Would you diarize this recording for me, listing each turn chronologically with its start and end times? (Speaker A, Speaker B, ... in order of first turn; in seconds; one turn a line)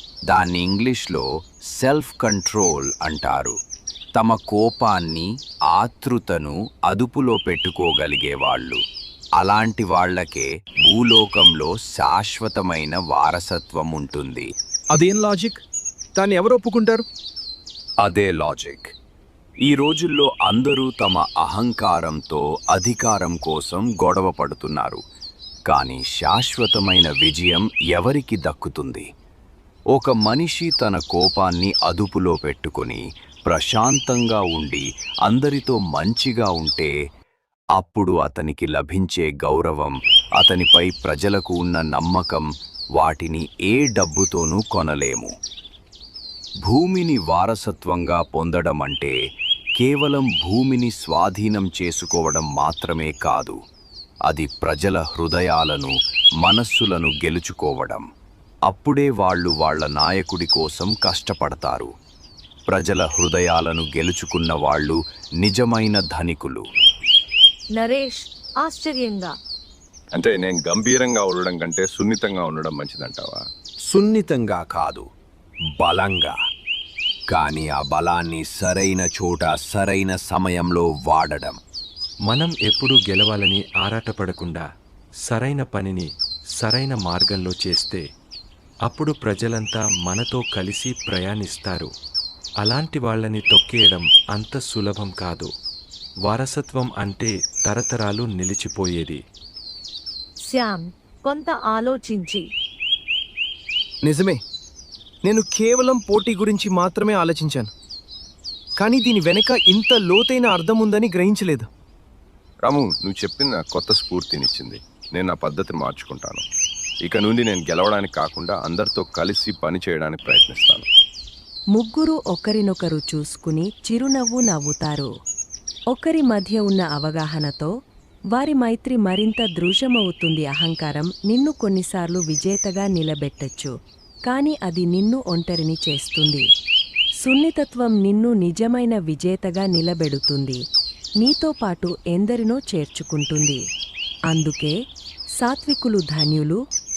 Speaker A: 0.3-3.5
Speaker A: 4.2-8.8
Speaker A: 9.4-14.5
Speaker B: 14.9-15.6
Speaker B: 16.2-17.0
Speaker A: 18.0-18.9
Speaker A: 19.6-25.0
Speaker A: 25.7-29.1
Speaker A: 29.9-36.9
Speaker A: 37.8-45.3
Speaker A: 46.6-49.1
Speaker A: 49.8-53.6
Speaker A: 54.3-58.0
Speaker A: 58.7-61.9
Speaker A: 62.7-66.6
Speaker C: 67.8-69.3
Speaker D: 70.1-73.4
Speaker A: 73.9-75.0
Speaker A: 75.8-76.4
Speaker A: 77.3-81.6
Speaker E: 82.3-84.7
Speaker E: 85.3-86.1
Speaker E: 86.6-88.0
Speaker E: 88.9-91.9
Speaker E: 92.6-95.5
Speaker E: 96.3-99.2
Speaker C: 100.5-102.4
Speaker B: 104.1-104.4
Speaker B: 105.3-107.7
Speaker B: 108.8-111.7
Speaker D: 112.6-116.4
Speaker D: 117.0-120.9
Speaker F: 121.8-125.1
Speaker F: 125.9-127.7
Speaker F: 128.3-133.7
Speaker F: 134.3-136.4
Speaker F: 137.2-140.6
Speaker F: 141.2-143.6
Speaker F: 144.3-144.8
Speaker F: 145.4-146.6